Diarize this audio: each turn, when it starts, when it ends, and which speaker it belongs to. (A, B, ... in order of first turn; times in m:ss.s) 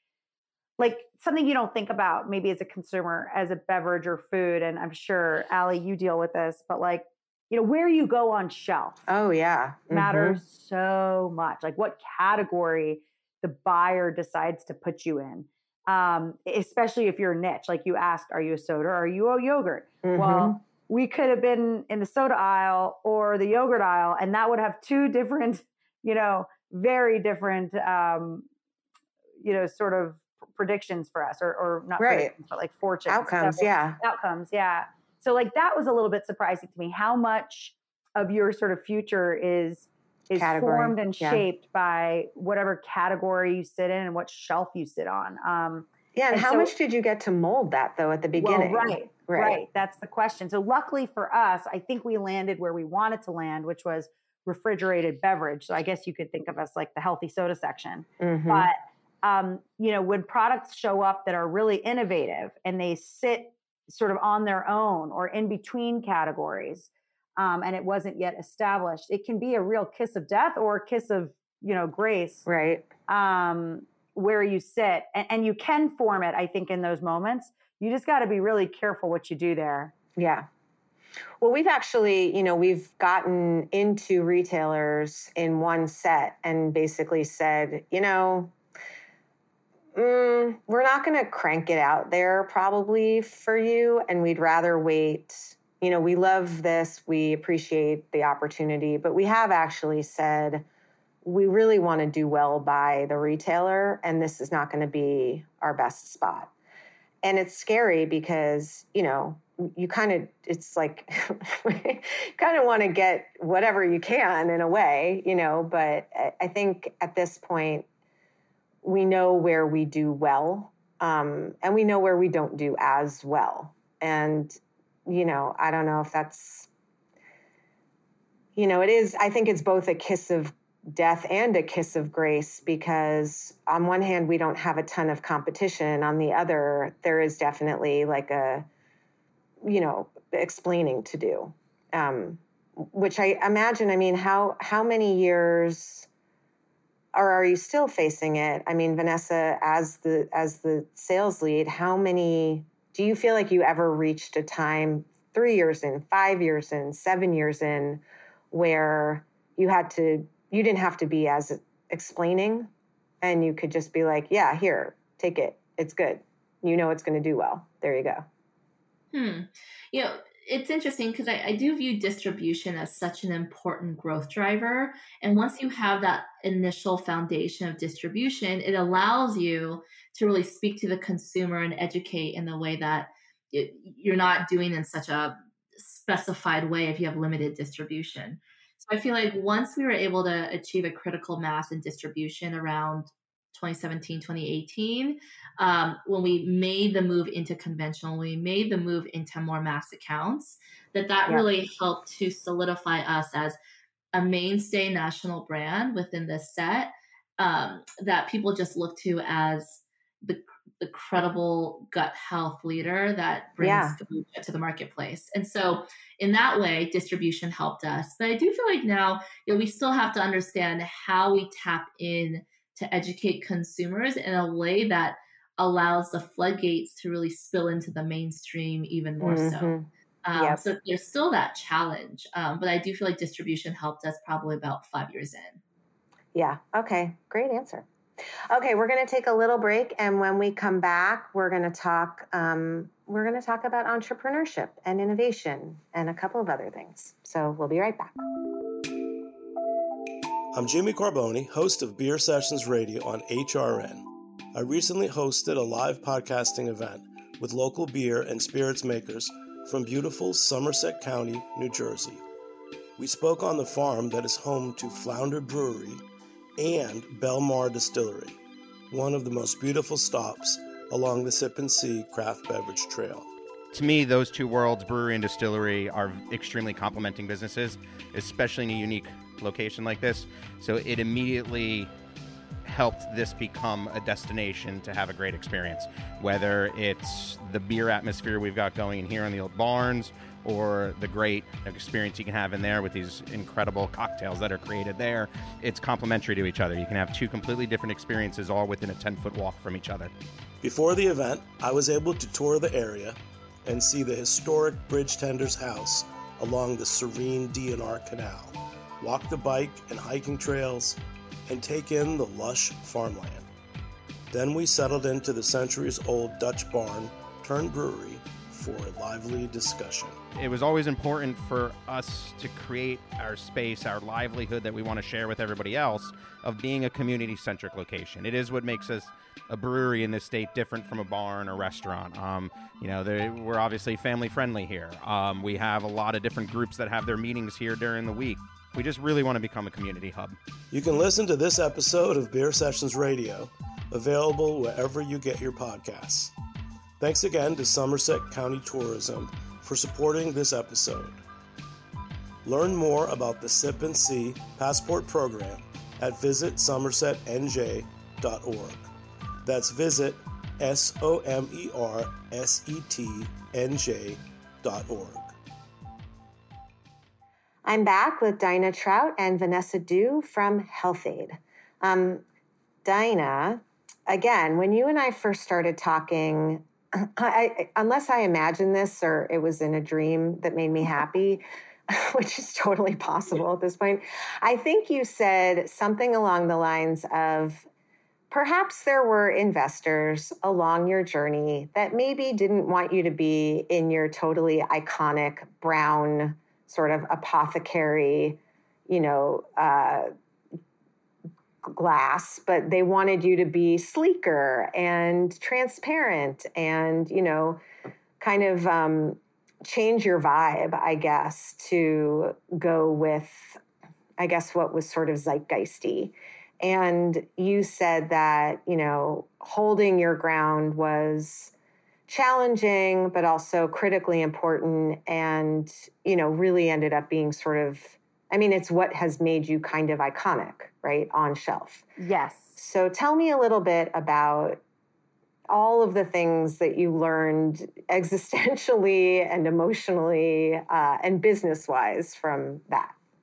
0:00.8-0:09.0 A
0:09.1-0:10.4 B
0:09.9-0:28.5 A
0:20.0-0:20.6 B
0:29.4-0:46.7 A
0:32.0-0:32.3 B
0:33.1-0:34.0 B
0:40.3-0:41.4 B
0:46.1-0:49.6 B
0:48.4-1:12.5 A
0:58.2-0:58.7 B
1:12.4-1:12.9 B
1:13.1-1:19.9 A
1:20.2-1:20.5 B
1:21.4-1:28.5 B
1:29.9-1:40.6 B
1:41.2-1:46.5 B
1:47.2-1:57.8 B
1:58.8-2:06.7 B
2:08.6-2:18.7 B
2:19.6-2:26.1 B
2:27.1-2:42.7 B
2:43.2-2:48.2 B
2:49.1-3:23.6 C
3:24.1-3:49.7 C
3:33.6-3:34.0 B
3:49.2-3:50.6 B
3:50.2-3:55.6 C
3:56.3-3:57.8 B
3:58.5-4:08.2 B
4:10.5-4:22.2 D
4:23.0-4:26.0 D
4:26.6-4:28.4 D
4:28.9-4:33.3 D
4:33.7-4:41.9 E
4:42.6-5:00.1 E
5:00.6-5:13.5 D
5:14.3-5:20.2 D
5:20.3-5:40.4 E
5:40.7-5:46.3 D
5:47.0-5:51.2 D
5:52.4-5:58.9 D
5:59.4-6:05.3 D
6:07.6-6:12.2 B
6:12.8-6:27.7 B
6:28.3-6:40.1 B
6:41.7-6:47.6 B
6:48.2-6:53.6 B
6:54.2-7:01.5 B
7:02.1-7:11.9 B
7:12.0-7:12.6 A
7:12.6-7:14.6 B
7:15.5-7:23.0 B